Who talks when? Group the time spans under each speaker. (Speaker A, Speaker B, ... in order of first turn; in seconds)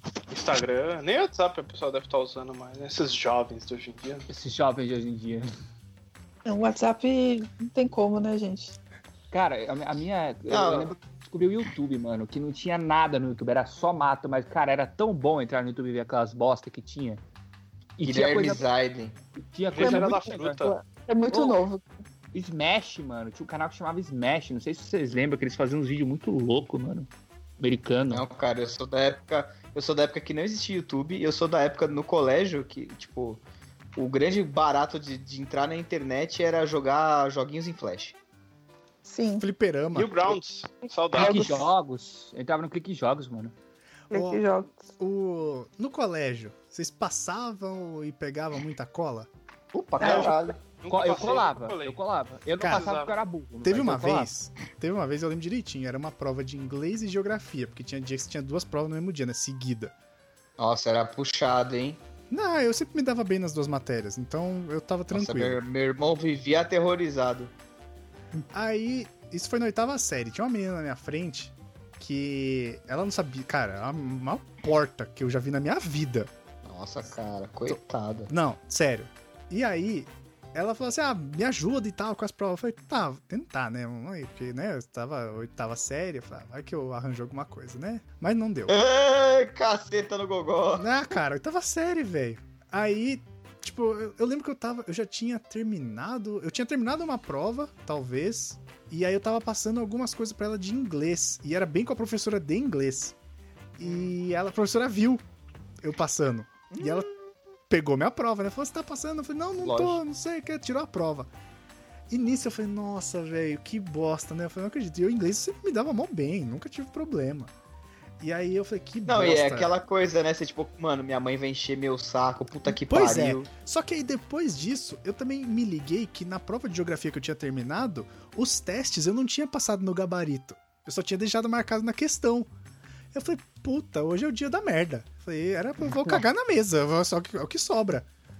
Speaker A: 0.3-4.3, 19.7-20.7, 39.9-41.5, 50.8-52.0, 52.6-53.1
Speaker B: 4.3-5.5, 9.3-17.2, 18.0-18.6, 19.4-20.6, 21.3-21.6, 22.3-27.1, 27.6-28.2, 41.1-43.5, 50.9-54.3
Speaker C: 6.5-8.7, 19.8-21.9, 39.0-39.5, 41.1-41.6, 44.1-44.9, 50.0-50.5
Speaker D: 10.5-10.9, 18.0-19.2, 28.1-33.4, 34.0-38.2, 49.7-50.6, 60.6-62.0, 65.1-67.5, 76.6-78.3, 88.7-90.9, 103.8-104.1, 106.7-107.3, 109.6-110.0, 119.0-123.5
Speaker E: 39.4-40.4, 44.1-44.4, 45.0-49.3, 52.6-52.9, 53.6-59.9, 62.3-65.6, 68.5-76.3, 78.3-88.8, 90.8-103.1, 103.8-105.2, 105.8-107.1, 107.7-111.3, 112.1-117.5, 118.2-119.7, 122.7-132.5, 133.1-138.1